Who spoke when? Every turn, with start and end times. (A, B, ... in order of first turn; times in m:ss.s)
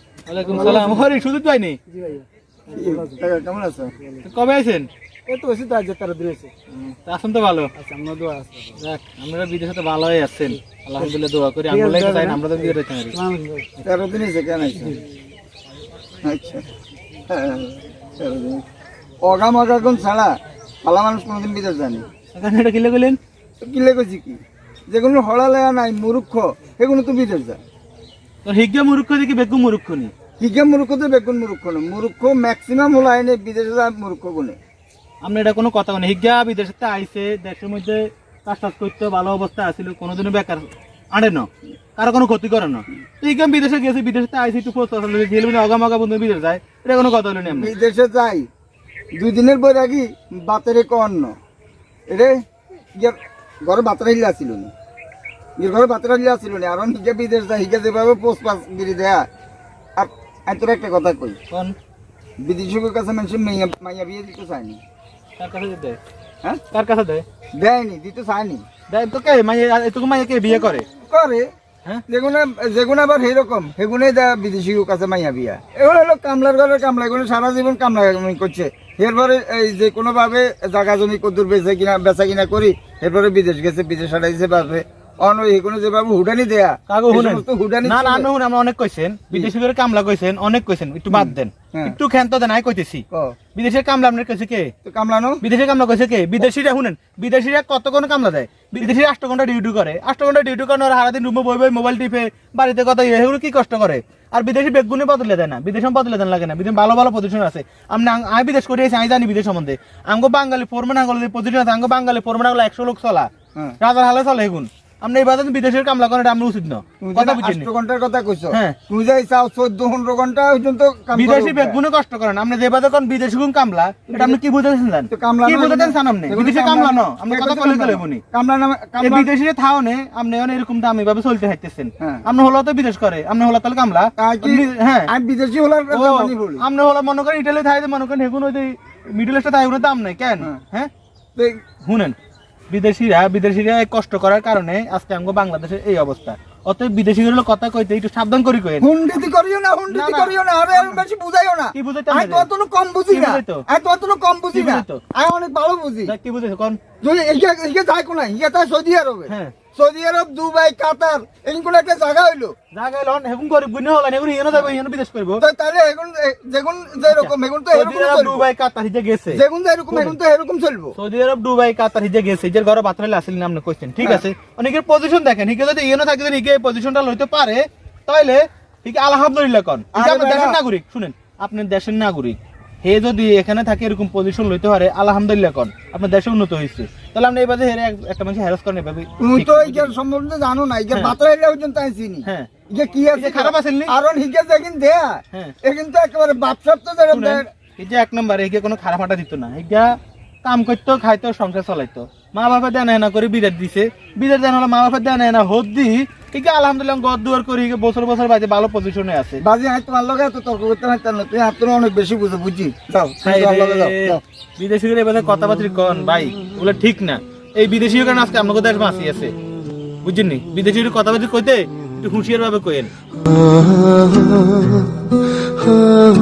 0:00.3-0:01.8 A
0:00.5-0:01.0 B
0:00.5-0:01.0 C
0:01.9-0:03.2 B
0:02.7-0:03.9 C
0:04.0-0:04.2 B
0:04.2-0:04.9 A
0:05.3-0:06.5 B
0:06.7-0:07.7 A
0:07.8-0:08.8 B
0:08.8-0:13.2 A
0:11.7-0:12.6 B
0:13.1-0:13.7 B
0:13.8-0:15.0 C
0:16.2-0:16.6 C
0:17.3-0:18.6 C
0:19.2-0:22.0 C
0:22.3-0:23.2 A
0:23.6-0:27.6 C
0:28.4-0:30.1 A
0:30.4-0:34.6 C
0:35.2-0:47.7 A
0:47.4-0:48.5 C
0:49.2-0:51.4 C
0:52.1-0:52.4 C
0:53.0-0:54.7 C
0:55.6-0:59.3 C
1:00.0-1:01.4 C
1:01.5-1:01.8 A
1:02.4-1:04.8 C
1:05.4-1:06.0 A
1:06.7-1:07.2 A
1:07.6-1:08.6 C
1:08.9-1:10.9 A
1:10.8-1:11.5 C
1:12.1-1:28.3 C
1:26.9-1:33.0 A
1:31.1-1:32.0 C
1:33.6-1:34.7 A
1:34.8-1:35.4 C
1:35.4-1:53.3 A
1:53.8-1:57.7 A
1:57.0-2:01.8 C
1:58.5-1:58.8 A
2:01.2-2:08.2 A
2:04.1-2:04.4 C
2:05.1-2:09.3 C
2:09.0-2:15.1 A
2:12.0-2:12.2 C
2:14.2-2:16.6 C
2:15.9-2:20.9 A
2:21.8-2:22.2 A
2:22.7-2:28.9 A
2:28.8-2:36.1 C
2:29.9-2:31.0 A
2:31.7-2:32.5 A
2:33.1-2:33.6 A
2:34.5-2:35.0 A
2:36.0-2:36.8 A
2:37.0-2:42.6 C
2:39.3-2:39.6 A
2:42.7-2:45.4 A
2:45.4-2:48.5 C
2:47.0-2:50.2 A
2:49.3-2:51.0 C
2:51.0-3:09.9 A
2:54.0-2:54.2 C
2:59.9-3:00.6 C
3:09.2-3:17.5 C
3:13.1-3:13.9 A
3:17.1-3:29.4 A
3:29.4-3:34.2 C
3:33.2-3:39.3 A
3:40.0-3:42.9 A